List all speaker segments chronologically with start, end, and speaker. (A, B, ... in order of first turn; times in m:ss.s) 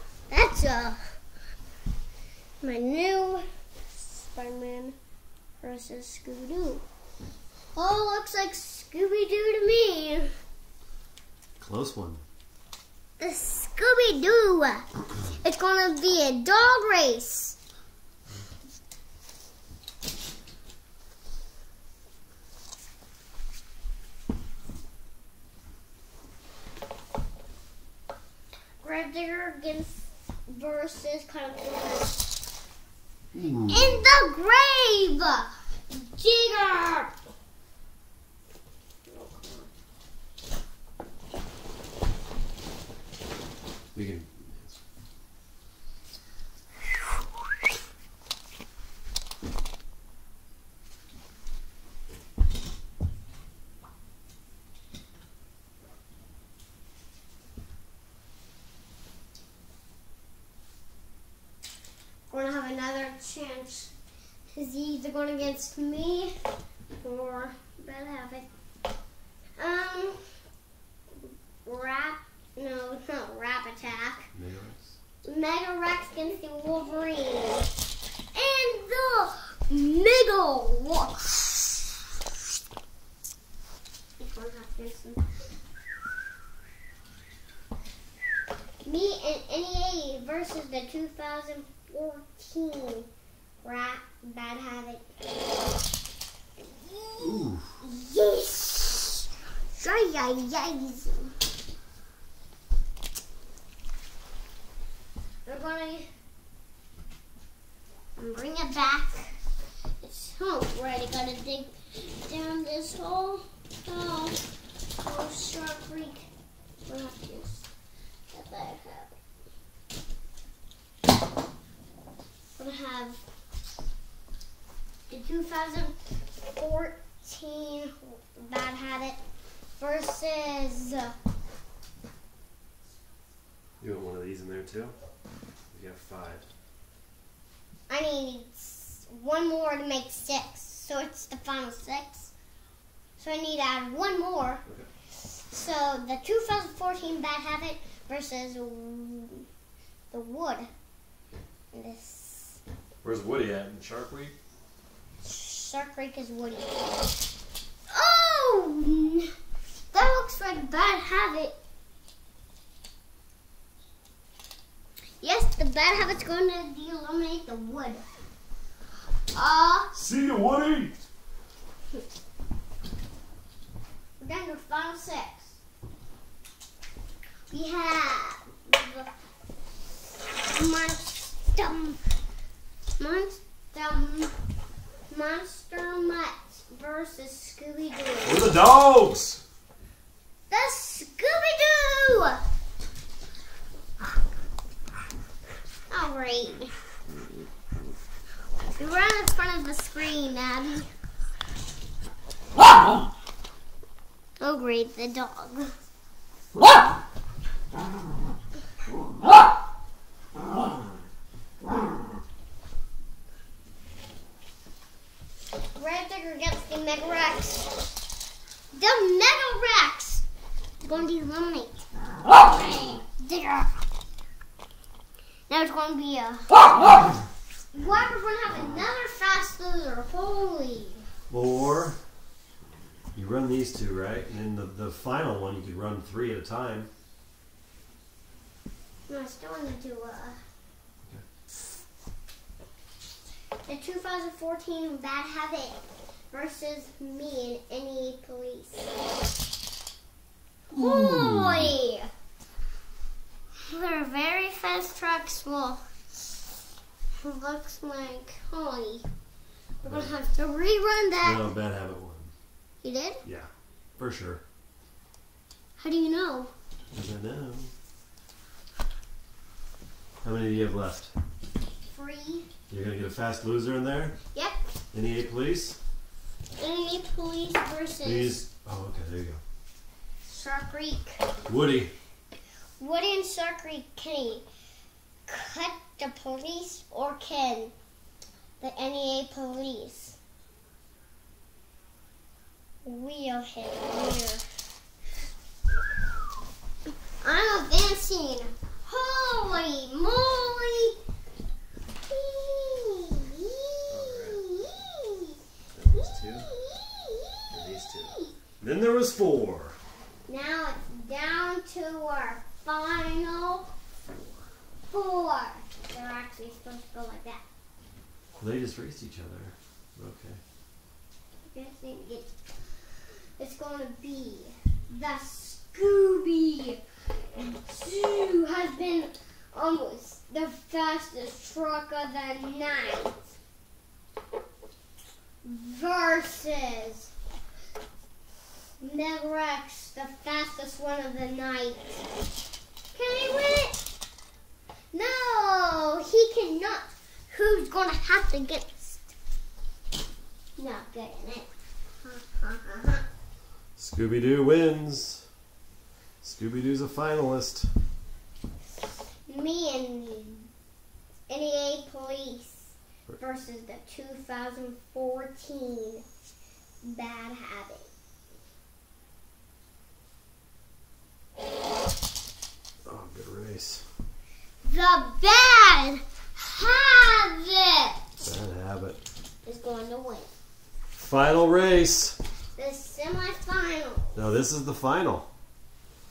0:00.3-0:01.2 A
0:02.6-0:05.0 A
0:05.6-0:06.8 A
0:07.8-0:10.3 A
0:11.6-0:12.2 B
0:13.2-0:14.9 A
0:15.4-0:17.6 A
0:28.8-0:32.3 A
0:33.3-0:34.1 B
0:33.7-0:37.1 A
0:39.1-0:39.7 A
0:44.0-0:44.8 B
1:02.3-1:03.9 A
1:04.6-1:06.4 A
1:07.0-1:08.5 A
1:09.6-1:10.3 A
1:11.6-1:14.3 A
1:14.3-1:15.0 B
1:15.2-1:17.7 A
1:18.3-1:22.0 A
1:24.2-1:25.3 A
1:28.8-1:33.1 A
1:33.6-1:35.1 A
1:36.6-1:41.4 A
1:37.2-1:37.7 B
1:45.5-1:46.1 A
1:48.2-1:49.4 A
1:50.0-1:54.4 A
1:55.0-1:56.3 A
1:56.9-1:57.7 A
1:58.3-1:59.2 A
2:02.6-2:03.2 A
2:05.1-2:09.2 A
2:09.8-2:11.1 A
2:13.8-2:15.0 B
2:15.7-2:16.5 B
2:17.9-2:22.3 A
2:23.2-2:24.6 A
2:25.2-2:29.5 A
2:30.1-2:30.7 A
2:31.7-2:32.6 A
2:33.0-2:34.4 B
2:35.2-2:36.8 A
2:37.9-2:39.3 A
2:39.9-2:41.6 A
2:45.2-2:48.0 A
2:49.3-2:49.9 A
2:49.9-2:51.0 B
2:54.2-2:55.6 A
2:57.5-2:59.1 A
3:00.4-3:02.0 A
3:03.0-3:04.4 A
3:05.1-3:08.5 A
3:08.2-3:09.4 B
3:10.5-3:12.4 A
3:15.9-3:16.8 A
3:18.8-3:20.9 A
3:24.4-3:25.8 A
3:35.8-3:37.7 A
3:38.7-3:40.2 A
3:40.8-3:41.8 A
3:42.4-3:43.8 A
3:45.5-3:46.8 A
3:47.7-3:51.0 A
3:51.3-3:52.0 B
3:53.2-3:56.9 B
3:59.1-4:00.4 A
4:03.7-4:05.8 A
4:06.3-4:08.9 A
4:10.7-4:11.8 B
4:10.7-4:12.1 A
4:13.6-4:15.8 A
4:17.2-4:19.1 A
4:19.8-4:21.4 A
4:19.8-4:20.1 B
4:21.2-4:22.3 B
4:22.8-4:23.2 A
4:23.2-4:24.4 B
4:25.8-4:26.5 A
4:26.9-4:27.7 B
4:30.2-4:31.1 B
4:31.9-4:32.5 A
4:32.7-4:34.2 B
4:34.9-4:35.8 B
4:36.6-4:38.5 A
4:38.0-4:39.4 B
4:40.3-4:41.2 A
4:41.5-4:41.9 B
4:42.8-4:44.5 A
4:45.3-4:47.7 A
4:48.6-4:50.2 A
4:52.8-4:54.5 A
4:57.2-5:01.0 A
5:02.1-5:05.4 A
5:03.9-5:04.4 B
5:05.7-5:06.5 B
5:05.9-5:08.4 A
5:07.5-5:09.8 B
5:10.3-5:13.7 A
5:14.9-5:17.4 A
5:18.4-5:20.4 B
5:21.5-5:22.3 A
5:23.4-5:26.8 A
5:27.3-5:33.4 A
5:35.4-5:37.1 A
5:38.8-5:42.0 A
5:42.9-5:43.8 A
5:44.9-5:49.1 A
5:50.6-5:51.5 A
5:52.0-5:53.0 A
5:53.8-5:55.2 B
5:56.2-5:57.7 B
5:59.3-6:00.5 A
6:01.3-6:06.0 A
6:06.8-6:07.9 A
6:12.9-6:13.8 B
6:14.6-6:18.2 A
6:18.2-6:19.0 B
6:19.4-6:20.3 A
6:21.0-6:22.2 B
6:22.6-6:24.2 A
6:24.2-6:25.3 B